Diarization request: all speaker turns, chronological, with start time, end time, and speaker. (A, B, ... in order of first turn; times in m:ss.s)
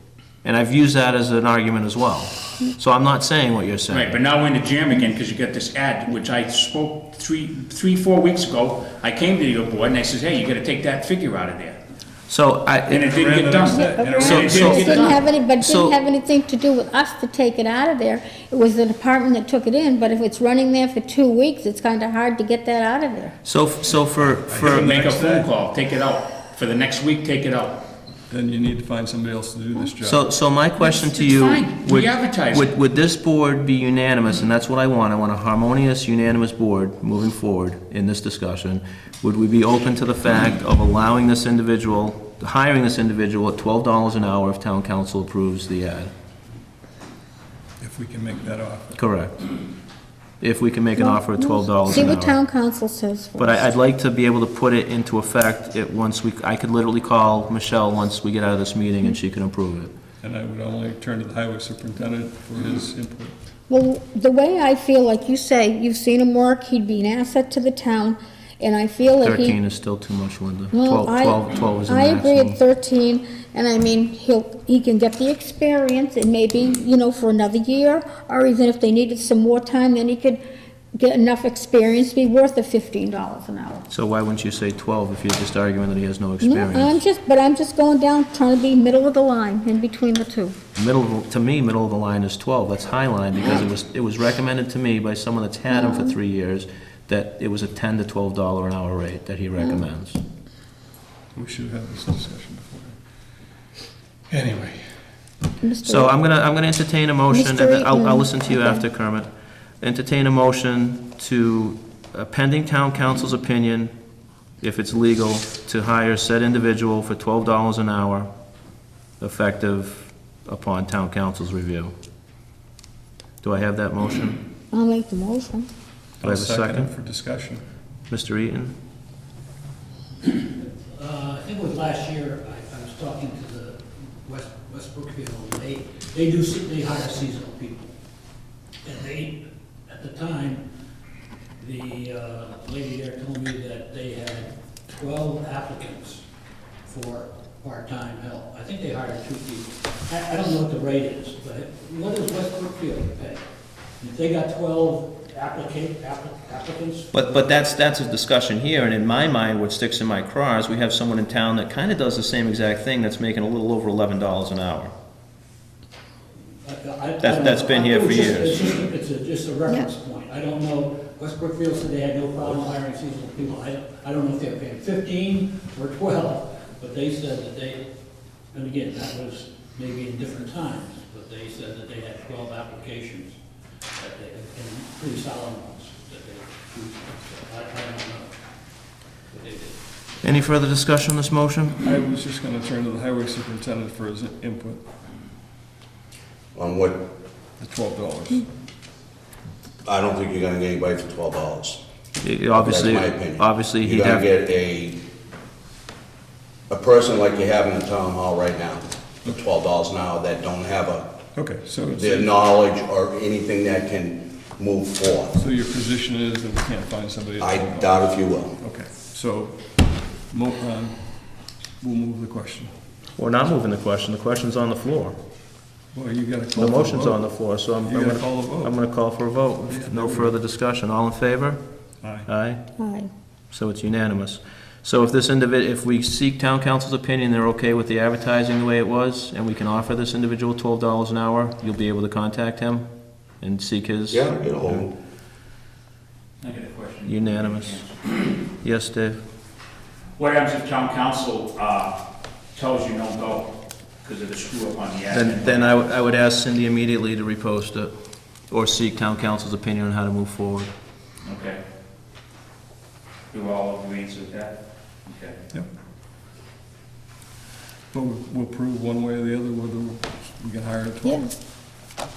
0:00.4-0:04.2 A
0:03.9-0:11.8 B
0:12.3-0:13.0 A
0:12.9-0:15.2 B
0:13.0-0:15.0 C
0:13.7-0:23.4 D
0:14.2-0:16.0 A
0:23.4-0:24.9 A
0:24.1-0:25.5 C
0:24.6-0:27.9 B
0:28.3-0:30.3 C
0:30.0-0:46.1 A
0:30.8-0:32.8 B
0:47.8-0:49.0 C
0:49.0-0:49.4 A
0:50.4-0:52.4 A
0:51.0-0:53.6 D
0:53.4-0:59.9 A
1:00.2-1:03.4 C
1:03.7-1:09.6 D
1:09.2-1:12.6 A
1:10.7-1:20.4 D
1:21.0-1:23.8 D
1:23.9-1:27.0 A
1:26.4-1:30.6 D
1:30.8-1:40.2 A
1:35.7-1:36.1 D
1:41.3-1:43.0 C
1:44.3-1:44.9 C
1:45.6-1:46.1 D
1:45.8-1:49.3 A
1:47.3-1:48.8 D
1:49.8-1:53.9 A
1:54.6-1:58.3 A
1:59.2-2:01.9 A
2:03.4-2:04.4 A
2:04.7-2:05.7 D
2:06.2-2:07.6 C
2:06.2-2:06.9 A
2:08.1-2:08.8 A
2:10.2-2:17.9 E
2:18.8-2:20.6 E
2:21.6-2:26.2 E
2:26.9-2:33.4 E
2:34.0-2:37.5 E
2:37.1-2:44.9 A
2:46.6-2:57.8 E
2:47.2-2:48.8 A
2:58.5-3:03.4 E
3:04.0-3:08.4 E
3:09.3-3:09.8 E
3:10.2-3:11.8 A
3:11.8-3:14.8 C
3:16.5-3:17.0 F
3:17.6-3:18.5 C
3:19.8-3:21.8 F
3:22.2-3:24.3 A
3:22.5-3:25.0 F
3:26.7-3:31.1 F
3:31.4-3:32.3 C
3:32.0-3:35.3 F
3:35.3-3:42.7 C
3:37.4-3:38.6 F
3:43.2-3:45.2 A
3:45.9-3:48.8 C
3:46.6-3:51.6 A
3:49.7-3:50.4 C
3:52.0-3:52.3 C
3:52.3-3:52.6 A
3:52.8-3:53.1 D
3:53.5-4:02.9 A
4:03.4-4:04.8 A
4:04.1-4:04.9 F
4:06.4-4:08.4 B
4:07.1-4:07.8 A
4:08.6-4:09.2 A
4:10.2-4:12.0 B
4:12.5-4:15.7 B
4:15.1-4:17.9 A
4:18.5-4:20.7 A
4:21.2-4:21.6 B
4:23.3-4:25.4 B
4:27.9-4:31.3 C
4:31.0-4:31.3 D